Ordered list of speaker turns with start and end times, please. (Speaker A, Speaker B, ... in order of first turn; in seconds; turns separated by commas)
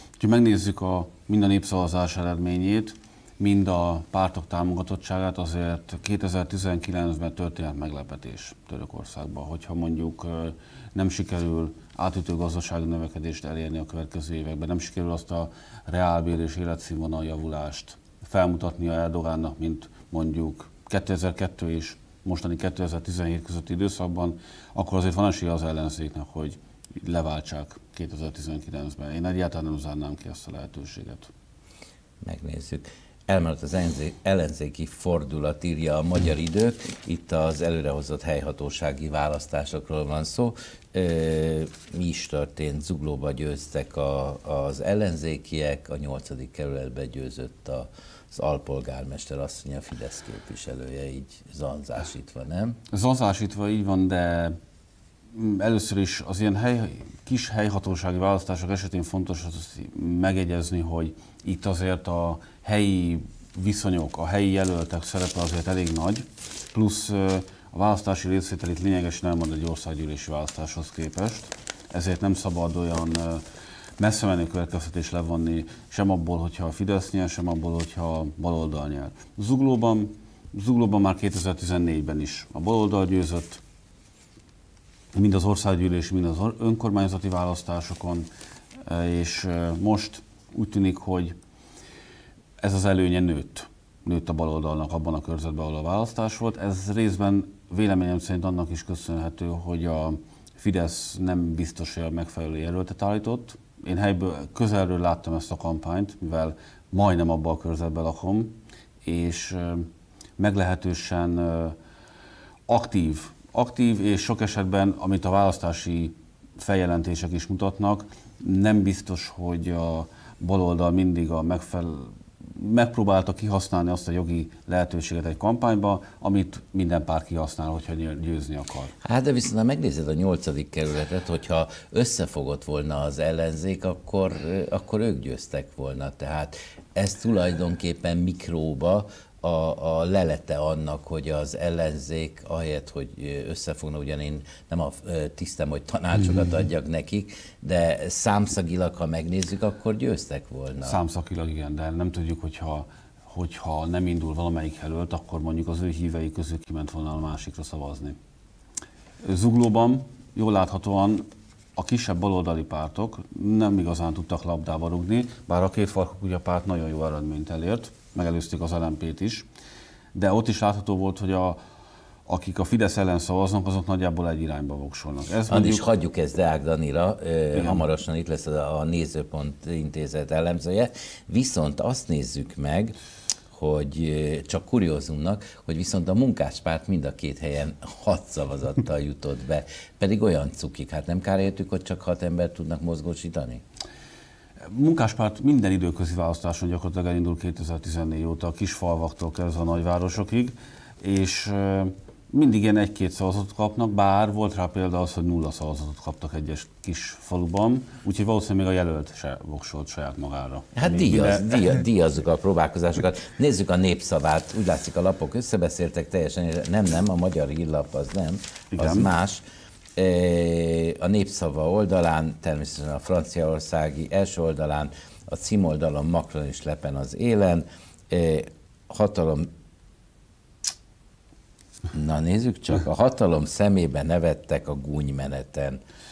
Speaker A: 0.2-31.3, Speaker B: 32.2-52.8, Speaker A: 52.9-54.6, Speaker A: 55.3-73.4, Speaker A: 74.0-83.6, Speaker A: 85.1-88.3, Speaker A: 88.8-91.4, Speaker A: 92.6-111.8, Speaker A: 112.7-128.9, Speaker B: 129.0-151.0, Speaker A: 150.8-158.2, Speaker A: 159.2-169.5, Speaker A: 170.1-171.6, Speaker A: 172.2-175.9, Speaker B: 175.5-182.9, Speaker A: 177.5-177.9, Speaker B: 183.5-193.6, Speaker A: 194.6-211.8, Speaker B: 210.7-219.4, Speaker A: 218.7-219.1, Speaker B: 220.0-229.5, Speaker B: 231.9-235.8